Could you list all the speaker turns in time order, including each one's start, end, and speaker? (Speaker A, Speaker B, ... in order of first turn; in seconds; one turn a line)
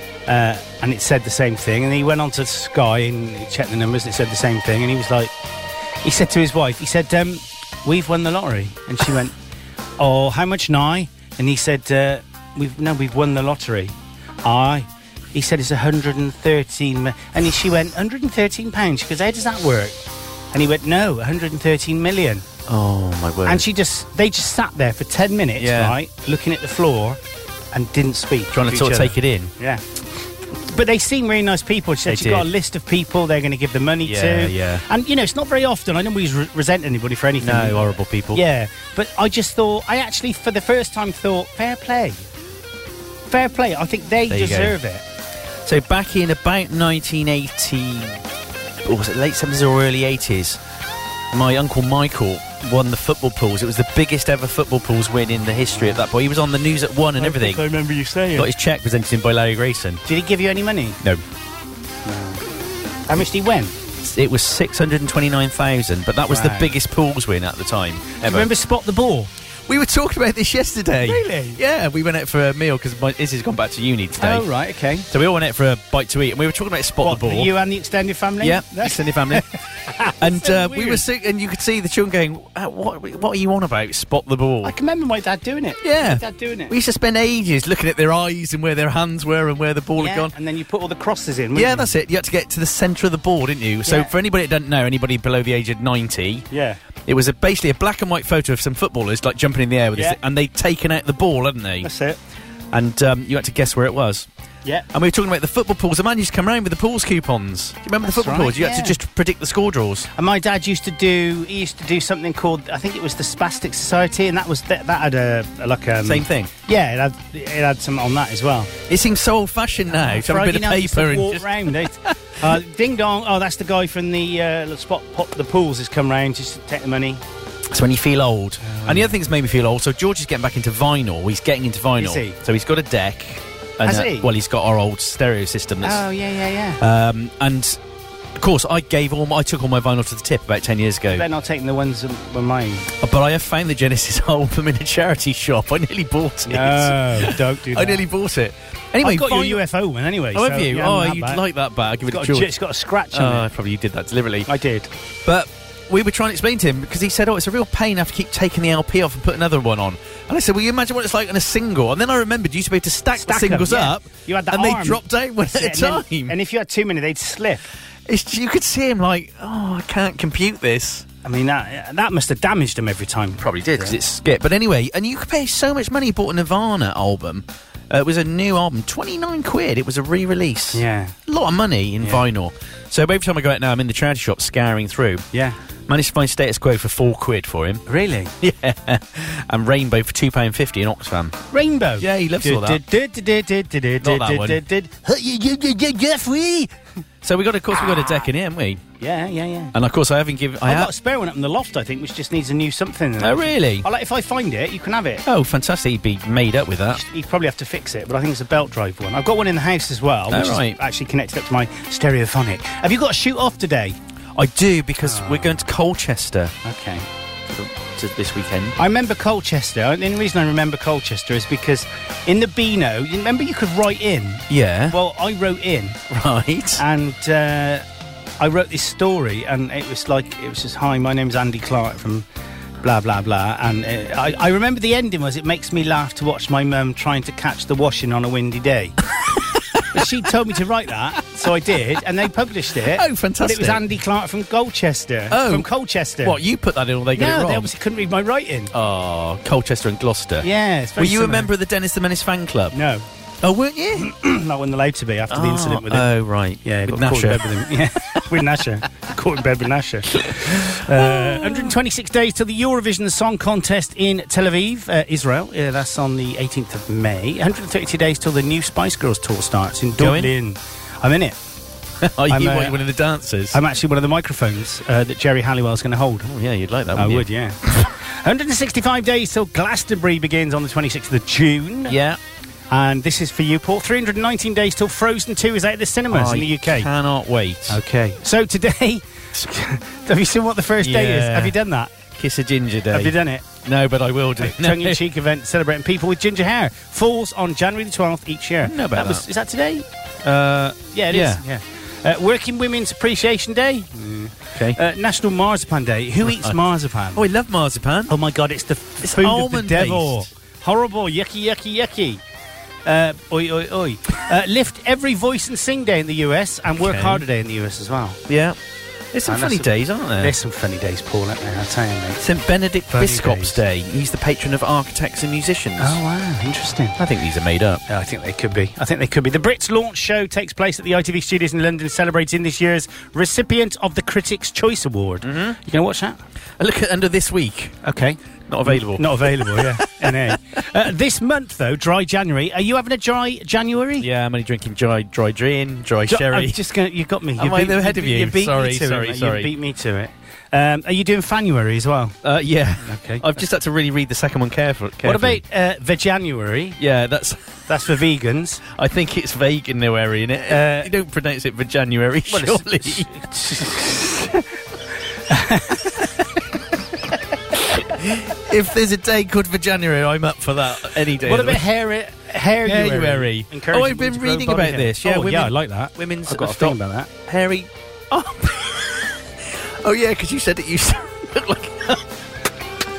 Speaker A: 0.3-5.3
Speaker A: 6.0-9.3
Speaker A: 10.0-20.0
Speaker A: 20.5-22.5
Speaker B: 22.7-23.6
Speaker A: 23.5-27.2
Speaker B: 25.6-26.0
Speaker A: 27.7-29.8
Speaker B: 28.5-29.5
Speaker A: 30.5-42.2
Speaker B: 32.1-32.5
Speaker B: 34.0-34.8
Speaker B: 37.4-38.4
Speaker A: 43.3-45.0
Speaker B: 44.3-44.8
Speaker B: 45.6-48.2
Speaker B: 48.8-50.6
Speaker B: 51.3-57.6
Speaker A: 57.2-58.5
Speaker B: 58.4-60.0
Speaker A: 60.1-61.0
Speaker A: 62.0-62.4
Speaker A: 63.1-63.8
Speaker B: 64.0-68.5
Speaker A: 66.3-66.7
Speaker A: 68.2-69.3
Speaker B: 69.7-74.5
Speaker A: 71.0-71.6
Speaker A: 74.2-75.1
Speaker B: 75.1-77.5
Speaker A: 77.0-81.0
Speaker B: 78.4-79.5
Speaker B: 80.2-84.8
Speaker A: 84.6-86.7
Speaker B: 85.8-90.3
Speaker A: 90.0-91.9
Speaker B: 91.5-96.5
Speaker A: 93.8-94.1
Speaker A: 96.5-96.8
Speaker B: 97.0-101.9
Speaker A: 101.8-102.2
Speaker B: 102.7-104.3
Speaker B: 104.9-110.1
Speaker A: 108.0-109.0
Speaker A: 110.1-118.7
Speaker B: 116.0-116.5
Speaker B: 118.9-122.1
Speaker A: 119.9-127.2
Speaker B: 127.7-136.0
Speaker A: 128.6-129.2
Speaker A: 132.0-132.4
Speaker A: 133.8-134.3
Speaker A: 135.8-136.8
Speaker B: 136.8-137.8
Speaker B: 138.4-141.3
Speaker A: 141.1-142.9
Speaker B: 143.0-149.6
Speaker A: 146.5-148.1
Speaker A: 149.0-151.4
Speaker B: 150.3-152.5
Speaker A: 152.1-153.5
Speaker B: 153.1-154.5
Speaker A: 154.5-154.9
Speaker B: 155.3-166.3
Speaker A: 163.2-167.7
Speaker B: 168.1-171.1
Speaker A: 171.2-174.0
Speaker B: 173.4-185.3
Speaker A: 180.7-181.2
Speaker B: 185.9-187.8
Speaker A: 187.9-188.3
Speaker B: 188.4-191.4
Speaker A: 191.5-196.7
Speaker B: 192.0-192.8
Speaker B: 194.0-194.6
Speaker B: 197.2-198.8
Speaker A: 199.0-199.8
Speaker B: 199.7-200.9
Speaker A: 200.7-205.2
Speaker B: 203.2-203.9
Speaker B: 205.3-207.0
Speaker A: 206.9-214.0
Speaker B: 210.3-210.8
Speaker B: 214.3-216.5
Speaker A: 215.0-215.6
Speaker A: 216.6-217.1
Speaker B: 217.5-218.8
Speaker A: 218.8-226.0
Speaker B: 224.5-225.0
Speaker B: 226.1-226.8
Speaker A: 226.8-227.8
Speaker A: 228.4-232.3
Speaker A: 232.8-239.0
Speaker B: 239.1-240.2
Speaker A: 239.8-246.4
Speaker B: 242.8-243.8
Speaker B: 245.3-245.7
Speaker B: 246.2-247.7
Speaker A: 247.2-248.7
Speaker B: 248.7-252.8
Speaker A: 250.4-251.5
Speaker A: 252.7-253.1
Speaker B: 253.4-254.1
Speaker A: 254.0-256.1
Speaker B: 255.3-258.4
Speaker A: 256.6-271.4
Speaker B: 260.3-261.8
Speaker B: 270.0-270.3
Speaker B: 272.0-273.6
Speaker A: 272.3-272.8
Speaker A: 273.5-276.3
Speaker B: 276.2-277.3
Speaker A: 276.9-282.0
Speaker B: 281.9-282.2
Speaker A: 282.7-286.9
Speaker B: 286.1-287.8
Speaker A: 287.7-291.9
Speaker B: 290.8-291.6
Speaker B: 292.1-295.0
Speaker A: 292.9-293.5
Speaker A: 294.4-307.2
Speaker B: 298.6-299.2
Speaker B: 301.1-301.4
Speaker B: 306.3-306.6
Speaker B: 307.1-308.1
Speaker A: 308.1-312.2
Speaker B: 309.0-310.3
Speaker A: 312.9-318.2
Speaker B: 316.8-317.2
Speaker B: 318.3-318.6
Speaker B: 319.1-320.4
Speaker A: 319.3-322.3
Speaker B: 322.2-326.0
Speaker A: 322.9-323.6
Speaker A: 325.8-327.0
Speaker B: 327.0-327.8
Speaker A: 327.9-336.2
Speaker B: 335.2-335.6
Speaker B: 336.6-337.8
Speaker A: 337.8-344.1
Speaker B: 338.5-340.4
Speaker B: 344.0-346.6
Speaker A: 346.1-352.2
Speaker B: 347.4-349.5
Speaker B: 352.2-355.4
Speaker A: 352.8-353.4
Speaker A: 355.0-356.8
Speaker B: 356.8-357.4
Speaker A: 357.7-358.6
Speaker B: 358.7-363.1
Speaker A: 360.5-360.9
Speaker A: 362.3-364.5
Speaker A: 365.3-366.1
Speaker B: 367.8-371.6
Speaker A: 371.2-377.1
Speaker B: 372.6-382.1